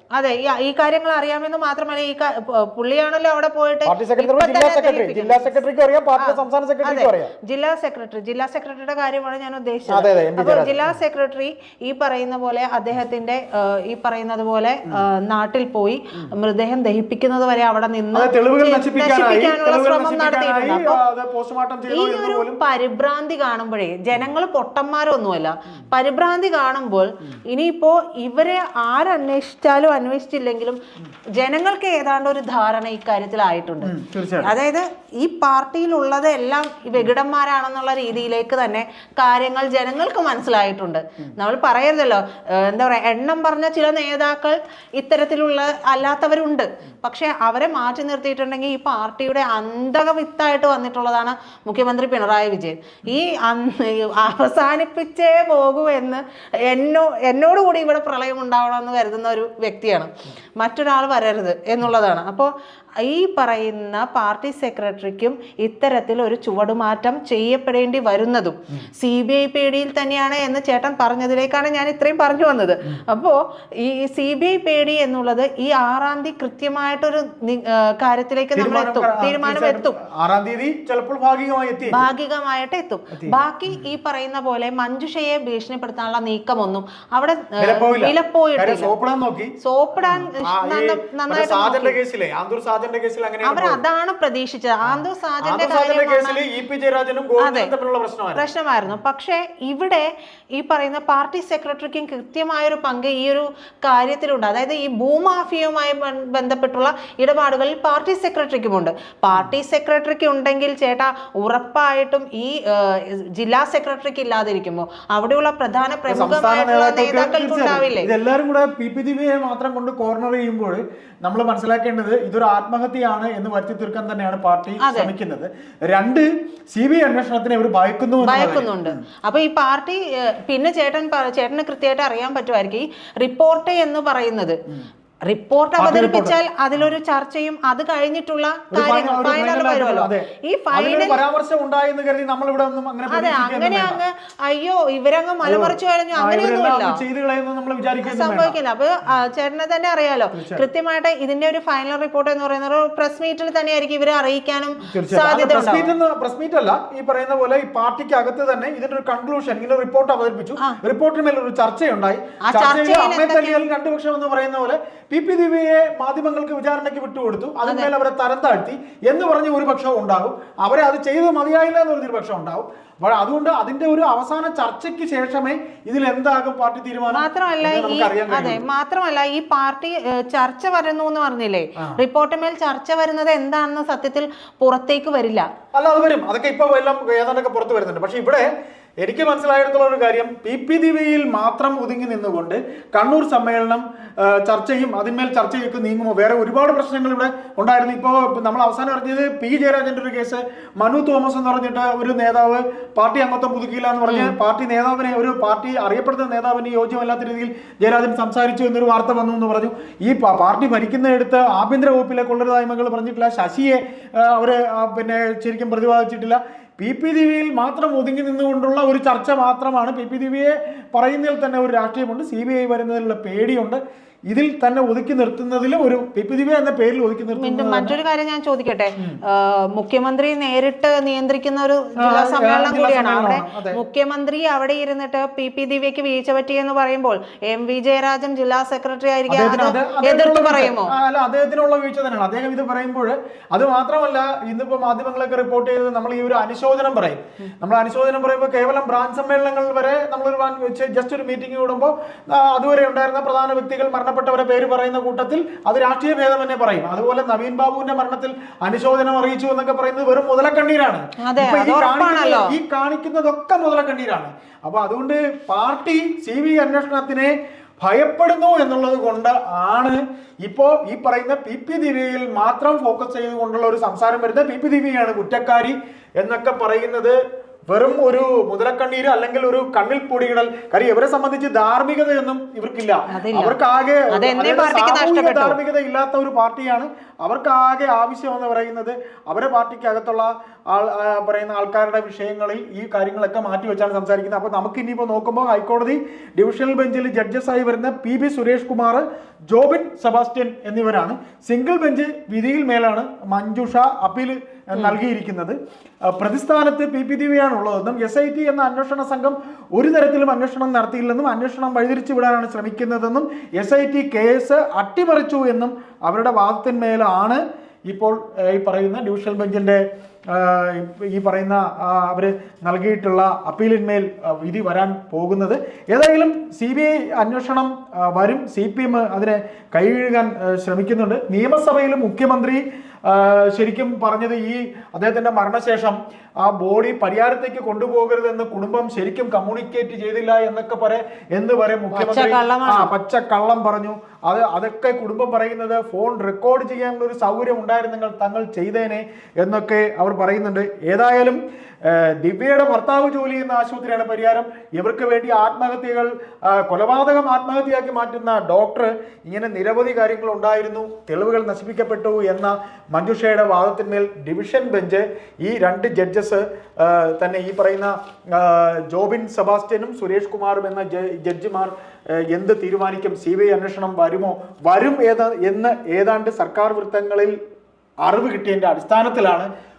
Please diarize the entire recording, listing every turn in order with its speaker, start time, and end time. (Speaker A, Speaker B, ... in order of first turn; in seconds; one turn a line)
Speaker A: 0.1-5.6
Speaker B: 3.9-7.3
Speaker A: 6.2-21.0
Speaker B: 9.9-10.9
Speaker B: 18.1-22.6
Speaker A: 21.9-30.8
Speaker A: 31.3-80.0
Speaker B: 33.8-34.5
Speaker B: 78.6-82.0
Speaker A: 81.9-88.9
Speaker B: 83.1-83.8
Speaker B: 87.6-93.8
Speaker A: 89.6-92.0
Speaker A: 93.4-96.4
Speaker B: 94.8-99.0
Speaker A: 97.4-97.7
Speaker A: 98.3-118.1
Speaker B: 116.1-129.0
Speaker A: 124.8-125.1
Speaker A: 128.2-134.6
Speaker A: 135.3-141.2
Speaker B: 135.8-136.9
Speaker B: 138.7-144.0
Speaker A: 143.1-147.0
Speaker B: 145.4-148.6
Speaker A: 148.0-155.9
Speaker B: 150.3-150.7
Speaker B: 154.9-178.7
Speaker A: 162.4-163.7
Speaker A: 167.7-167.9
Speaker A: 177.1-185.5
Speaker B: 185.7-188.5
Speaker B: 189.0-228.0
Speaker A: 204.1-204.4
Speaker A: 227.4-240.9
Speaker B: 232.0-233.8
Speaker B: 239.3-277.2
Speaker A: 261.2-262.6
Speaker B: 277.7-305.6
Speaker A: 283.1-283.6
Speaker A: 284.1-285.6
Speaker B: 306.1-377.4
Speaker A: 341.9-342.9
Speaker B: 378.0-379.5